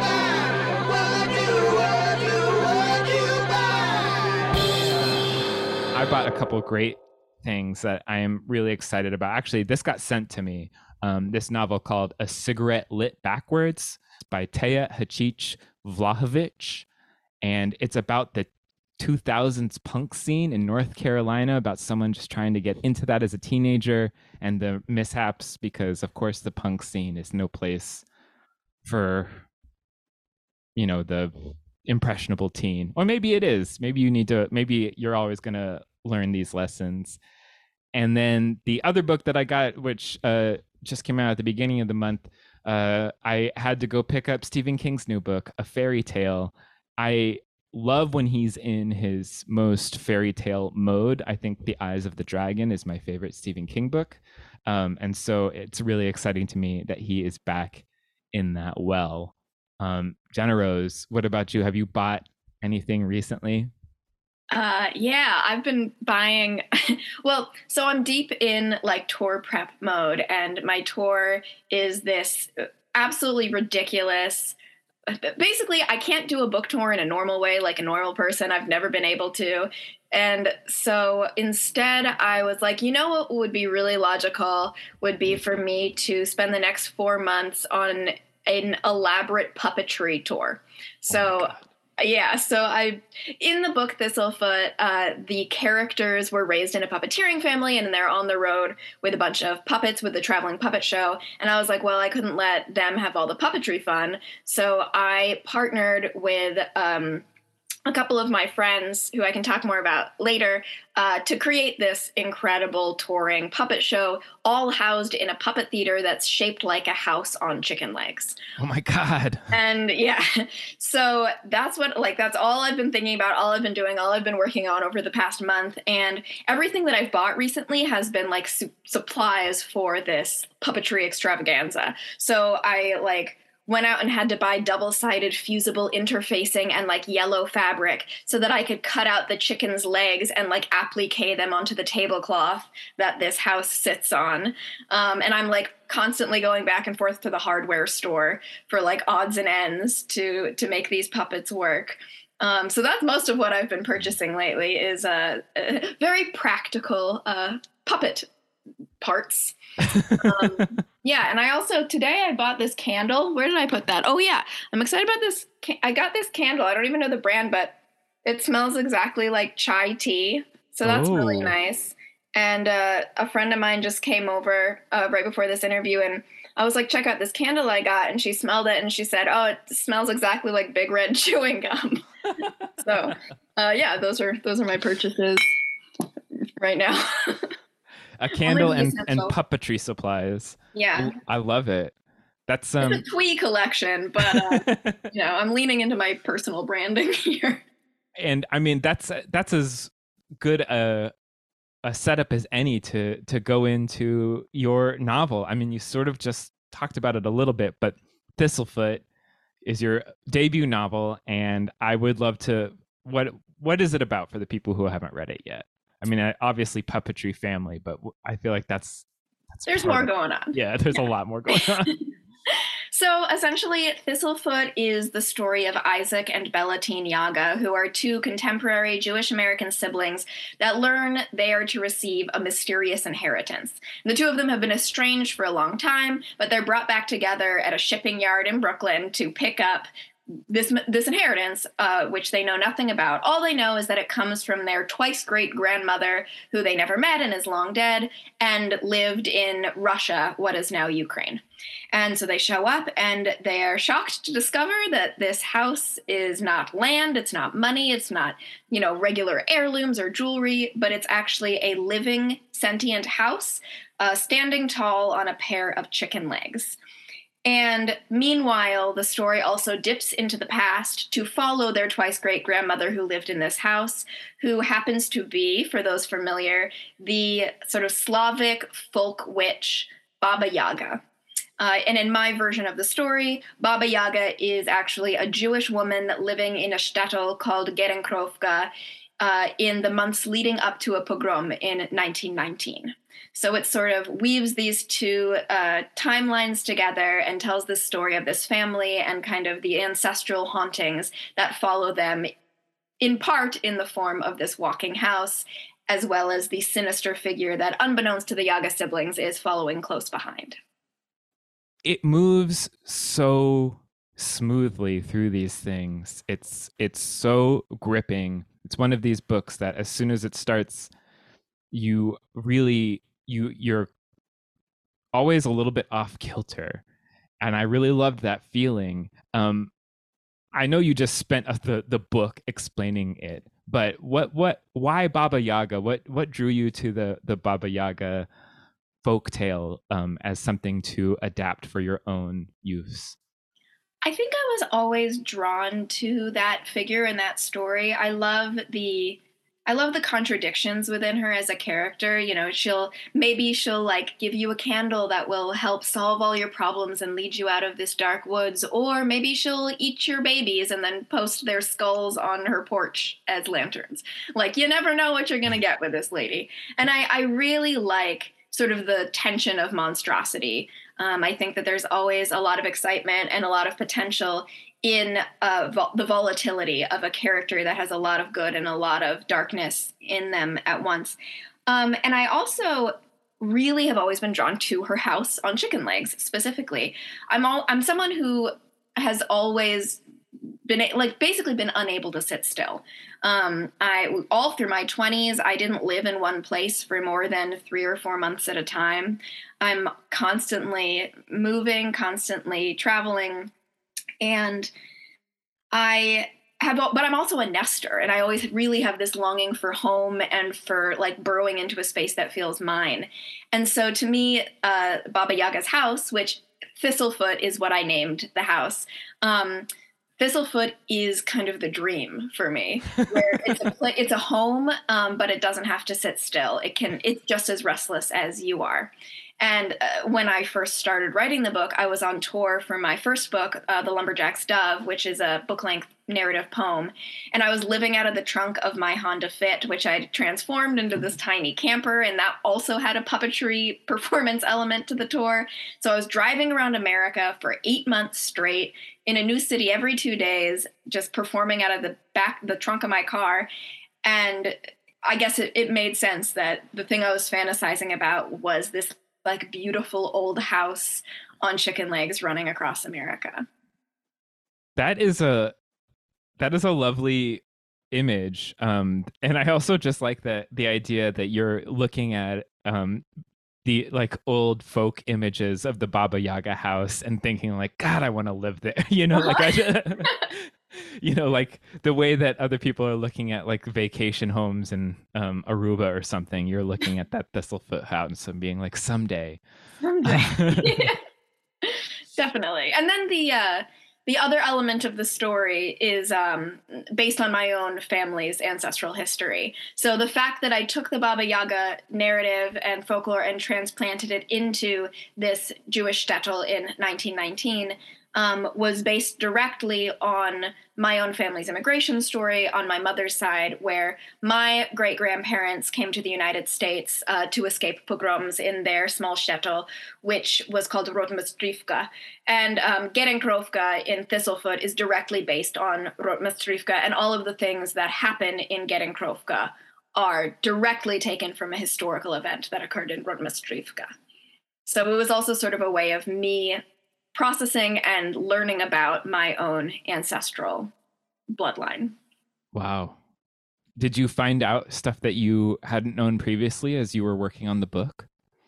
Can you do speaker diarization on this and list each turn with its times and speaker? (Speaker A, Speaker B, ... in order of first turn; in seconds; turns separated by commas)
Speaker A: 5.9-16.9, Speaker A: 17.4-28.0, Speaker A: 28.8-29.4, Speaker A: 30.8-31.3, Speaker A: 31.8-37.2, Speaker A: 37.9-63.7, Speaker B: 64.5-74.5, Speaker B: 75.1-107.2, Speaker A: 91.1-91.6, Speaker B: 107.8-118.4, Speaker A: 118.6-119.5, Speaker B: 119.5-158.3, Speaker B: 159.0-182.0, Speaker A: 159.9-160.6, Speaker A: 170.8-171.5, Speaker B: 182.7-185.4, Speaker B: 186.6-187.5, Speaker A: 188.2-191.9, Speaker B: 188.4-189.3, Speaker B: 190.7-191.1, Speaker A: 192.5-193.0, Speaker B: 192.8-197.6, Speaker A: 194.2-195.0, Speaker A: 198.2-201.1, Speaker A: 201.8-209.0, Speaker A: 209.6-221.9, Speaker B: 219.7-221.0, Speaker B: 221.5-239.9, Speaker B: 240.5-266.8, Speaker B: 267.4-281.0, Speaker B: 281.6-302.3, Speaker B: 303.0-310.6, Speaker A: 311.8-320.9, Speaker A: 321.7-323.9, Speaker A: 325.1-326.8, Speaker A: 327.4-329.7, Speaker A: 330.5-338.3, Speaker A: 339.0-343.1, Speaker B: 344.0-390.0, Speaker B: 390.6-403.5, Speaker B: 404.2-404.7, Speaker B: 405.7-419.7, Speaker B: 420.2-453.5, Speaker B: 454.0-463.4, Speaker A: 464.8-465.5, Speaker A: 466.4-473.1, Speaker A: 473.6-489.4, Speaker B: 479.1-479.5, Speaker B: 489.8-491.0, Speaker A: 490.0-490.9, Speaker B: 491.6-533.9, Speaker B: 534.6-536.6, Speaker B: 537.1-540.7, Speaker B: 541.3-542.0, Speaker A: 542.5-543.0, Speaker A: 543.8-548.1